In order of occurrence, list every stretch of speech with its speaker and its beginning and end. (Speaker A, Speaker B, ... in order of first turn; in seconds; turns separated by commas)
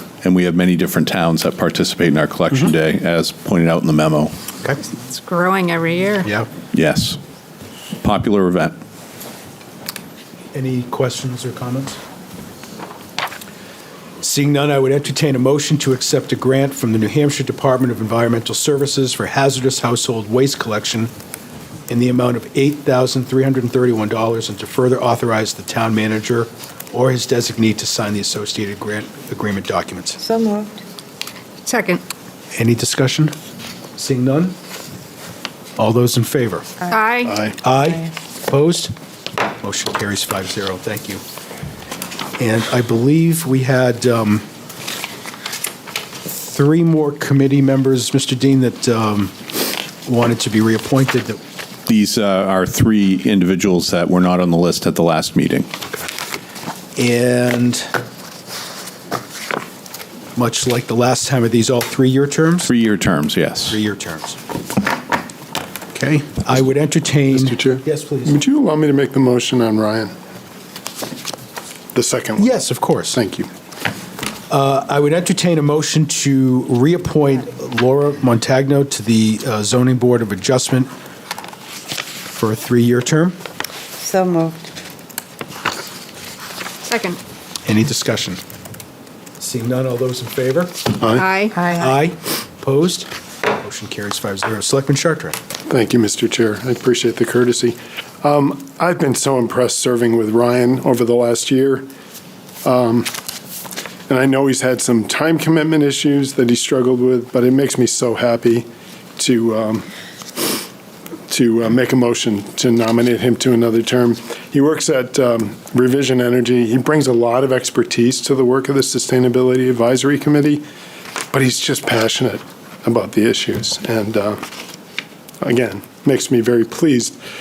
Speaker A: 0.2-4.3, Speaker B: 4.8-6.3, Speaker A: 6.7-7.2, Speaker A: 8.0-8.7, Speaker C: 10.5-12.0, Speaker C: 14.2-21.1, Speaker C: 21.9-30.2, Speaker D: 30.2-30.8, Speaker B: 31.6-32.0, Speaker C: 32.5-33.4, Speaker C: 34.0-34.6, Speaker C: 35.8-36.8, Speaker D: 36.8-38.1, Speaker B: 36.9-37.4, Speaker E: 37.2-37.5, Speaker C: 37.5-38.9, Speaker C: 39.6-41.2, Speaker C: 42.4-44.5, Speaker C: 46.2-49.4, Speaker C: 50.0-51.4, Speaker A: 51.9-55.7, Speaker C: 57.0-57.9, Speaker C: 60.4-62.7, Speaker A: 62.6-63.8, Speaker C: 63.7-64.4, Speaker C: 65.9-68.4, Speaker E: 67.3-70.1, Speaker E: 71.9-73.5, Speaker C: 72.4-73.2, Speaker C: 74.5-80.9, Speaker C: 82.3-83.4, Speaker D: 84.0-84.7, Speaker B: 86.8-87.2, Speaker C: 87.6-88.4, Speaker C: 89.4-90.9, Speaker E: 91.0-91.2, Speaker B: 91.2-91.7, Speaker D: 91.5-91.9, Speaker C: 91.8-95.4, Speaker E: 95.7-101.9, Speaker E: 102.6-103.1, Speaker E: 104.1-108.7, Speaker E: 109.2-109.9, Speaker E: 111.3-120.6, Speaker E: 121.3-124.4, Speaker E: 125.4-127.2